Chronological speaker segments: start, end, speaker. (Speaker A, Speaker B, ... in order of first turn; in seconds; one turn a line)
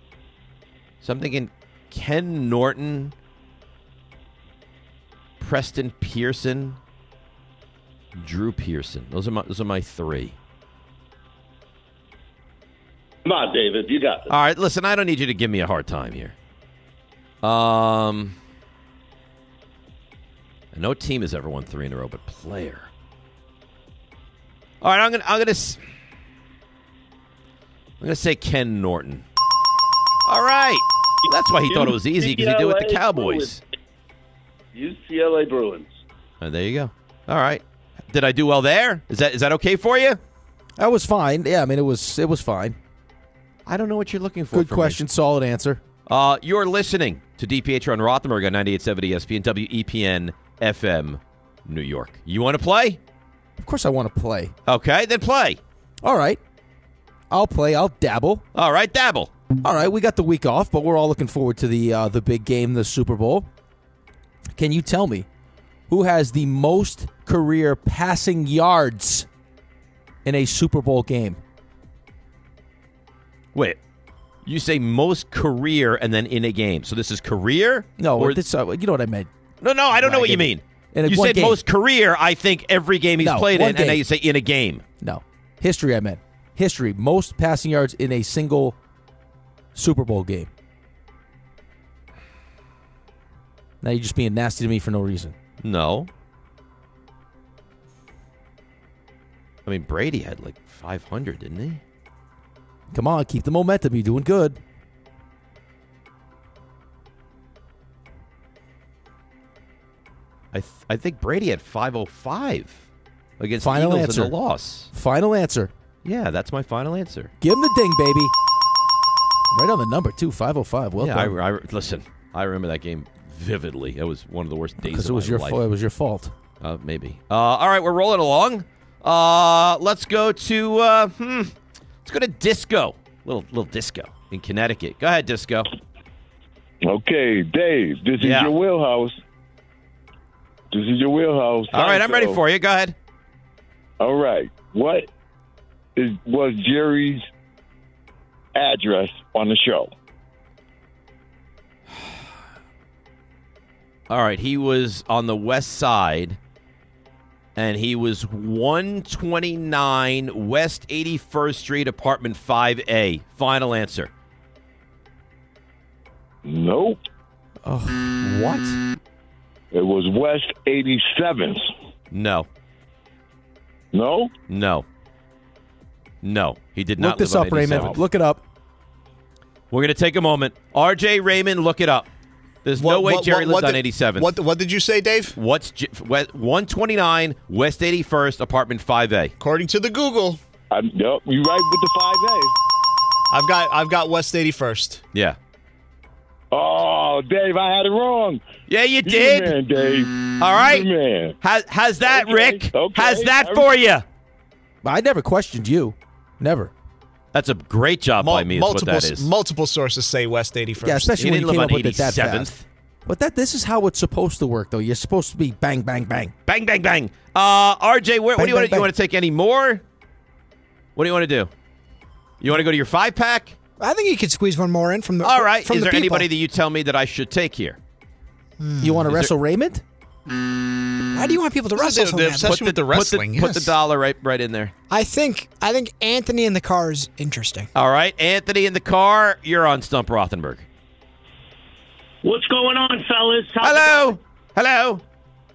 Speaker A: 1.0-3.1
Speaker A: 5.4-6.8
Speaker A: 8.1-10.3
Speaker B: 13.2-14.3
Speaker A: 14.3-16.3
Speaker A: 17.4-18.3
Speaker A: 20.7-22.9
Speaker A: 24.8-25.8
Speaker A: 28.0-29.2
Speaker A: 30.2-33.6
Speaker B: 31.7-33.5
Speaker B: 34.7-36.0
Speaker A: 36.4-40.2
Speaker C: 40.8-42.8
Speaker A: 43.6-45.0
Speaker C: 44.5-45.8
Speaker A: 46.1-53.0
Speaker C: 53.6-54.5
Speaker A: 54.6-55.6
Speaker C: 56.0-56.4
Speaker C: 57.3-58.4
Speaker A: 58.5-59.3
Speaker C: 59.6-63.5
Speaker C: 64.5-65.3
Speaker C: 65.9-69.3
Speaker C: 70.2-71.4
Speaker A: 74.4-78.4
Speaker C: 78.0-79.3
Speaker A: 79.6-84.8
Speaker C: 79.9-81.6
Speaker C: 83.2-84.0
Speaker C: 85.0-88.8
Speaker C: 89.7-90.5
Speaker C: 93.8-95.3
Speaker A: 95.6-96.1
Speaker A: 99.7-101.8
Speaker C: 102.9-104.6
Speaker A: 110.5-112.8
Speaker A: 113.4-114.9
Speaker C: 113.6-114.3
Speaker C: 114.9-115.7
Speaker A: 116.0-117.3
Speaker C: 117.4-118.3
Speaker C: 119.5-121.3
Speaker A: 121.0-125.6
Speaker C: 124.8-126.3
Speaker A: 126.6-131.5
Speaker A: 132.0-135.7
Speaker D: 136.8-139.2
Speaker A: 138.2-138.5
Speaker D: 140.7-142.4
Speaker A: 141.7-142.9
Speaker D: 144.0-145.1
Speaker D: 145.9-147.3
Speaker D: 148.5-149.9
Speaker A: 154.1-156.4
Speaker A: 157.6-164.1
Speaker D: 166.4-167.0
Speaker C: 167.6-168.7
Speaker D: 169.7-171.7
Speaker A: 172.1-172.5
Speaker D: 173.9-174.3
Speaker A: 174.5-174.8
Speaker A: 176.2-178.0
Speaker C: 177.0-178.4
Speaker A: 179.7-182.1
Speaker A: 182.6-184.3
Speaker E: 182.8-185.3
Speaker A: 185.3-189.3
Speaker E: 189.4-190.4
Speaker D: 190.7-192.5
Speaker E: 193.3-195.0
Speaker D: 196.5-198.5
Speaker A: 198.7-199.6
Speaker D: 199.0-201.3
Speaker A: 200.4-200.9
Speaker A: 201.4-204.0
Speaker D: 202.1-203.7
Speaker C: 204.8-206.7
Speaker A: 207.3-209.3
Speaker E: 208.2-211.1
Speaker C: 210.8-212.5
Speaker A: 211.2-212.6
Speaker C: 213.1-216.3
Speaker A: 216.5-219.8
Speaker C: 218.4-218.9
Speaker A: 220.9-221.5
Speaker A: 222.4-223.5
Speaker F: 223.8-226.2
Speaker A: 225.2-227.8
Speaker F: 228.6-229.1
Speaker C: 228.8-229.8
Speaker F: 231.1-232.6
Speaker E: 231.8-233.7
Speaker A: 232.4-234.7
Speaker F: 234.9-237.7
Speaker A: 237.7-240.6
Speaker G: 242.2-244.2
Speaker A: 243.6-245.0